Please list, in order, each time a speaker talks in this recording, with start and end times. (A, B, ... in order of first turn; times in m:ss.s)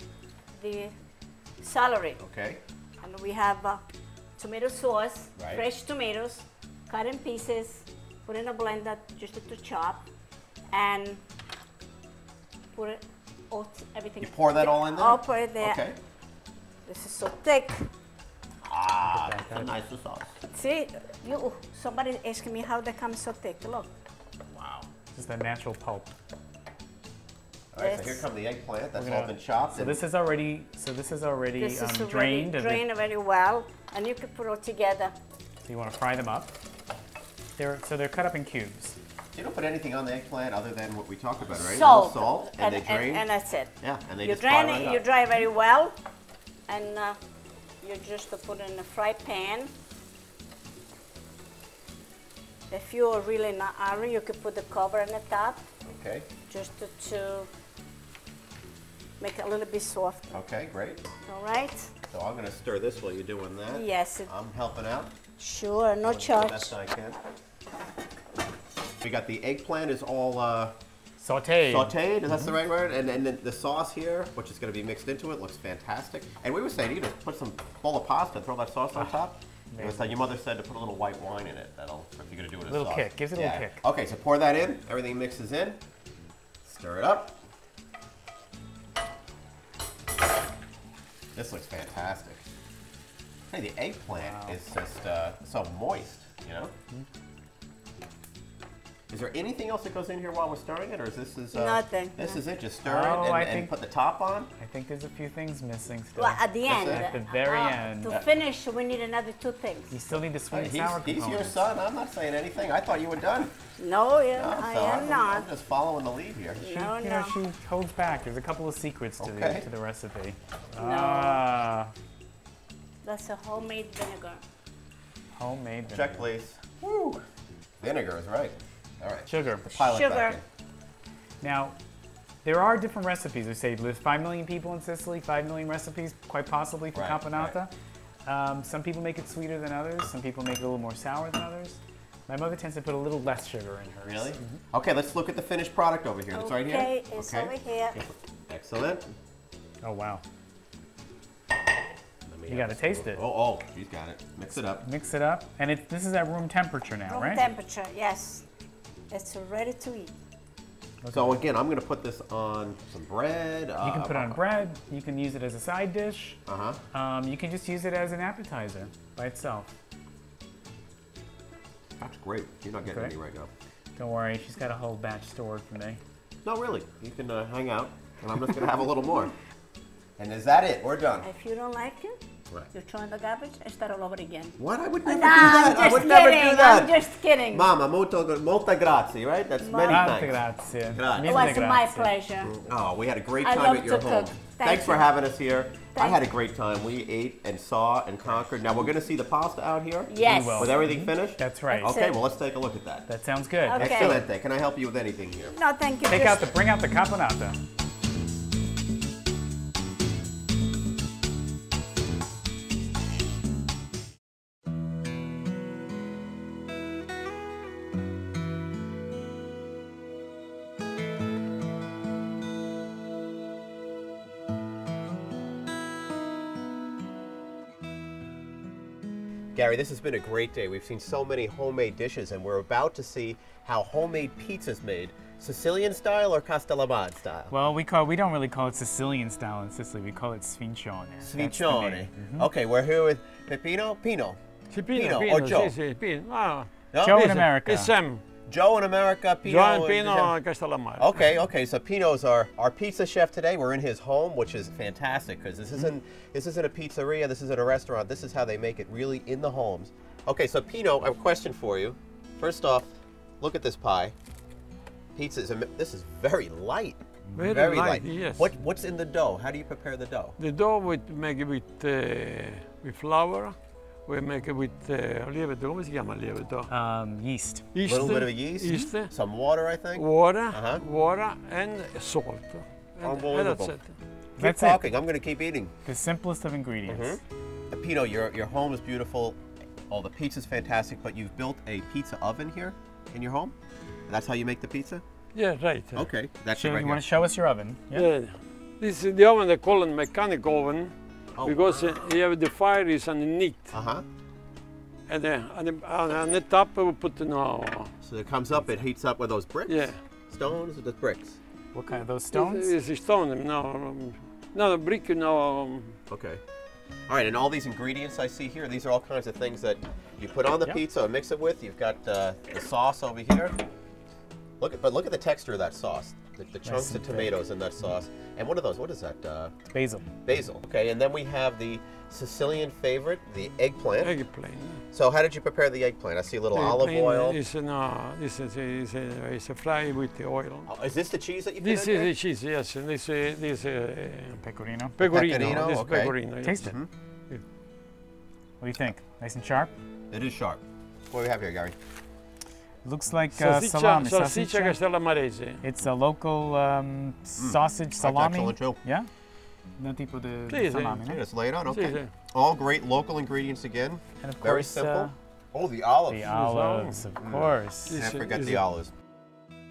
0:00.6-0:00.9 A
0:01.6-0:02.2 A
0:02.2-0:02.6 B
0:03.0-0:03.8 A
0:04.4-0:10.0 A
0:05.4-0:05.6 B
0:10.7-0:11.2 A
0:12.7-0:15.8 A
0:14.2-0:16.0 B
0:16.8-0:17.9 A
0:18.6-0:20.3 B
0:19.1-0:19.7 C
0:20.5-0:23.9 A
0:24.4-0:24.9 B
0:25.1-0:26.1 C
0:27.7-0:30.0 B
0:27.8-0:28.2 A
0:29.0-0:32.8 C
0:31.6-0:35.1 A
0:35.6-0:36.5 C
0:37.6-0:39.0 C
0:39.3-0:43.3 B
0:41.5-0:46.0 A
0:43.8-0:45.0 B
0:46.7-0:47.2 A
0:47.8-0:49.7 A
0:52.7-0:55.6 A
0:55.8-0:56.3 B
0:56.5-0:57.5 A
0:59.2-1:00.3 A
1:00.3-1:01.0 B
1:01.2-1:01.9 A
1:02.1-1:05.1 B
1:03.7-1:04.3 A
1:05.4-1:06.7 A
1:06.0-1:07.2 B
1:09.0-1:10.7 B
1:11.2-1:12.5 C
1:11.6-1:25.8 B
1:19.7-1:20.2 C
1:22.7-1:23.8 C
1:26.6-1:27.4 B
1:31.3-1:32.4 B
1:33.5-1:36.7 B
1:34.1-1:34.6 C
1:39.1-1:44.5 B
1:41.5-1:42.4 A
1:42.8-1:43.7 C
1:44.6-1:48.2 C
1:46.2-1:50.0 A
1:46.6-1:47.1 B
1:48.1-1:48.3 B
1:49.9-1:51.6 C
1:50.5-1:53.5 B
1:53.8-1:55.5 A
1:54.3-1:56.8 B
1:56.6-1:57.3 A
1:56.7-2:01.9 C
1:59.2-1:59.6 B
2:00.8-2:01.4 A
2:03.0-2:04.4 A
2:05.4-2:06.3 C
2:05.9-2:07.2 B
2:07.8-2:10.4 B
2:09.3-2:09.6 C
2:09.7-2:10.4 A
2:11.4-2:11.7 C
2:12.4-2:17.7 C
2:16.9-2:17.6 B
2:18.2-2:24.6 C
2:24.0-2:29.1 B
2:26.3-2:28.0 A
2:29.8-2:30.2 C
2:32.2-2:34.8 B
2:32.5-2:33.2 C
2:34.8-2:37.5 C
2:37.1-2:38.4 A
2:39.1-2:40.1 A
2:41.0-2:41.4 C
2:41.1-2:44.4 B
2:43.8-2:46.4 C
2:46.4-2:46.8 B
2:46.9-2:49.7 C
2:52.0-2:53.5 B
2:52.8-2:53.1 C
2:54.0-2:56.0 C
2:56.4-2:59.3 B
3:00.2-3:01.3 B
3:01.2-3:02.2 A
3:02.7-3:07.7 A
3:04.6-3:10.4 B
3:09.6-3:10.2 A
3:09.8-3:12.1 C
3:10.9-3:11.6 B
3:11.2-3:12.5 A
3:12.4-3:23.1 B
3:13.4-3:15.2 A
3:15.9-3:16.2 A
3:20.1-3:20.8 A
3:20.2-3:22.0 C
3:21.7-3:22.2 A
3:23.1-3:24.2 C
3:23.6-3:24.2 A
3:23.7-3:25.6 B
3:25.5-3:26.5 A
3:26.1-3:27.6 C
3:49.5-3:57.5 B
3:57.5-4:02.5 C
4:01.2-4:04.4 B
4:04.7-4:08.2 D
4:04.9-4:05.7 B
4:06.9-4:07.4 B
4:07.0-4:07.9 C
4:08.5-4:10.4 B
4:09.4-4:11.2 D
4:11.0-4:22.9 B
4:23.4-4:24.1 B
4:25.1-4:30.4 B
4:27.3-4:27.5 C
4:27.4-4:28.5 D
4:30.4-4:36.7 D
4:36.7-4:37.7 C
4:37.7-4:39.1 D
4:37.8-4:40.8 B
4:40.0-4:43.9 D
4:43.0-4:43.8 B
4:44.4-4:44.8 C
4:44.4-4:45.7 B
4:45.8-4:47.2 C
4:46.8-4:49.4 B
4:49.9-4:53.5 B
4:54.1-4:55.0 B
4:55.3-4:56.0 D
4:55.9-4:57.0 B
4:56.5-4:58.1 C
4:57.9-5:03.7 D
5:01.4-5:02.0 B
5:03.7-5:04.0 B
5:05.1-5:07.9 D
5:08.0-5:11.4 B
5:09.7-5:10.0 D
5:11.7-5:12.7 C
5:12.3-5:16.0 D
5:16.1-5:16.4 B
5:17.1-5:23.6 B
5:24.6-5:29.5 B
5:26.6-5:27.3 C
5:29.7-5:30.0 C
5:30.2-5:34.2 B
5:34.0-5:34.8 D
5:34.9-5:37.4 B
5:36.5-5:40.7 D
5:40.6-5:42.1 B
5:41.6-5:44.4 D
5:44.4-5:45.0 C
5:45.0-5:46.7 D
5:45.0-5:46.9 B
5:46.4-5:46.8 C
5:48.6-5:49.7 C
5:50.1-5:51.8 B
5:52.8-5:54.8 C
5:53.3-5:55.6 D
5:55.6-5:59.1 C
5:57.4-5:58.8 B
5:59.8-6:01.2 C
6:00.5-6:01.0 D
6:01.0-6:06.3 B
6:01.6-6:02.1 D
6:04.2-6:05.1 C
6:06.1-6:08.0 C
6:06.3-6:07.0 D
6:07.2-6:08.9 B
6:07.9-6:08.6 D